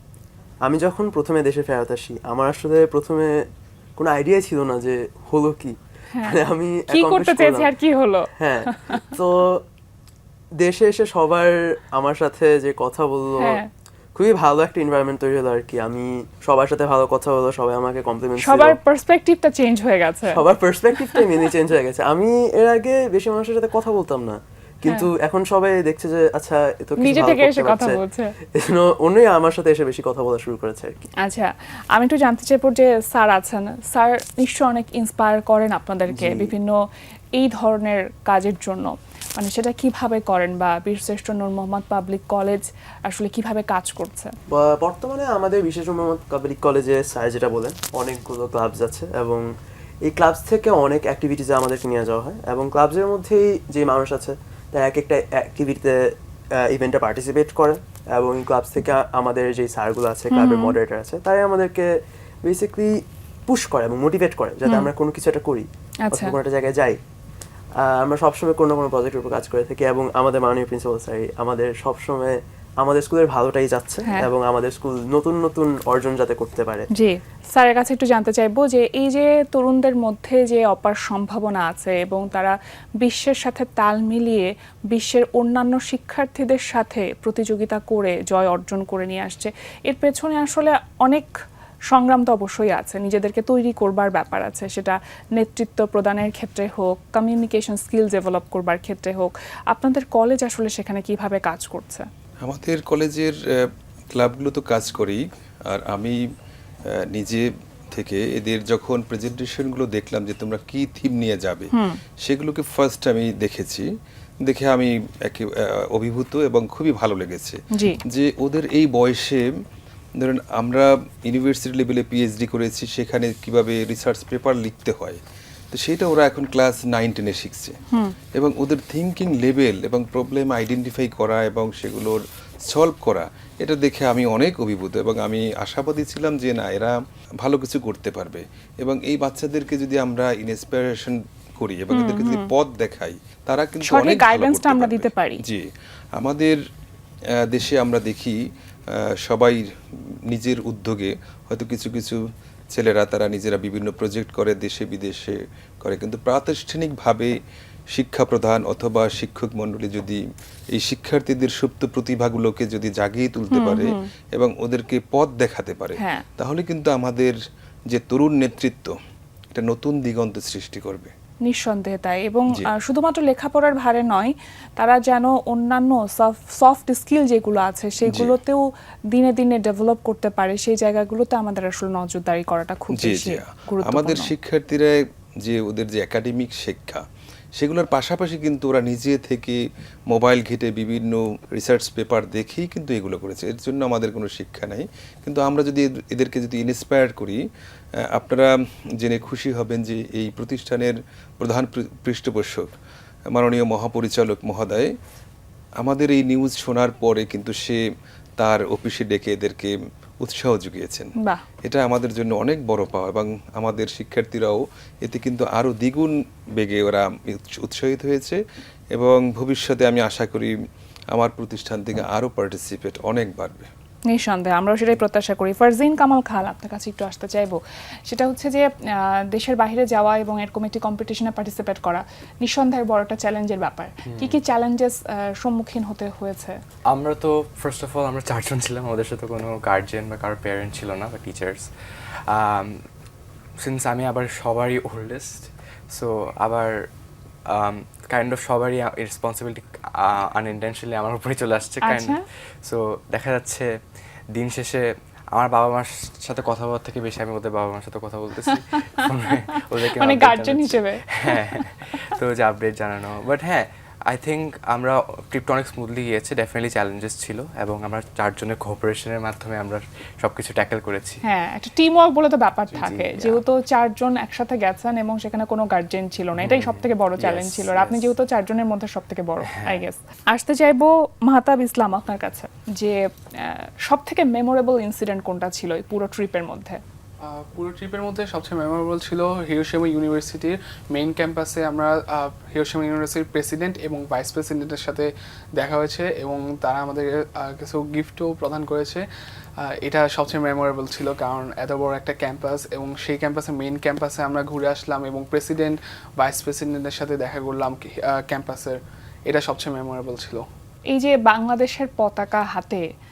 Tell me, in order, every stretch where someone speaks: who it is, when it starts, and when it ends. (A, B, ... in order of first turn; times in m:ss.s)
0:00.6-0:07.7 A
0:06.1-0:09.1 B
0:08.4-0:09.6 A
0:10.6-0:13.6 A
0:13.4-0:13.7 B
0:14.2-0:18.8 A
0:18.4-0:20.4 B
0:20.3-0:28.0 A
0:27.0-0:28.4 B
0:28.5-0:31.0 A
0:31.2-0:36.8 B
0:36.1-0:36.5 A
0:37.4-0:44.4 B
0:44.5-0:49.5 A
0:50.0-1:07.0 A
1:00.3-1:00.8 B
1:04.7-1:04.9 B
1:06.1-1:06.4 B
1:07.8-1:16.9 A
1:16.9-1:31.3 B
1:31.9-1:42.1 B
1:42.4-1:46.2 C
1:46.9-1:51.7 C
1:51.7-1:52.0 B
1:52.2-1:53.9 C
1:54.4-1:59.5 C
1:57.7-1:58.0 B
2:00.2-2:05.2 C
2:05.7-2:07.8 C
2:08.3-2:26.6 C
2:21.9-2:22.5 B
2:23.8-2:25.4 B
2:27.4-2:28.4 C
2:28.9-2:29.7 C
2:30.3-2:32.2 C
2:32.7-2:37.4 C
2:37.9-2:40.2 C
2:40.8-2:47.4 C
2:43.5-2:44.0 B
2:46.0-2:46.2 B
2:47.9-2:49.0 C
2:49.5-2:51.1 C
2:51.5-3:04.3 B
2:58.0-2:58.4 C
3:02.9-3:07.0 C
3:07.6-3:17.4 C
3:18.1-3:22.7 C
3:23.3-3:24.9 C
3:25.8-3:27.8 C
3:28.4-3:31.1 C
3:31.6-3:38.4 C
3:38.9-3:40.5 C
3:41.1-3:43.7 C
3:44.1-3:47.6 B
3:48.1-3:56.6 B
3:54.1-3:54.4 D
3:56.9-4:01.7 D
4:02.3-4:02.8 D
4:03.6-4:06.9 D
4:07.5-4:13.7 D
4:11.8-4:12.2 B
4:14.3-4:31.2 D
4:18.7-4:19.0 B
4:19.6-4:21.7 B
4:31.2-4:46.8 B
4:32.7-4:33.4 D
4:36.4-4:38.1 D
4:39.5-4:39.8 D
4:47.3-4:59.0 E
4:59.6-5:10.5 E
5:10.9-5:12.8 B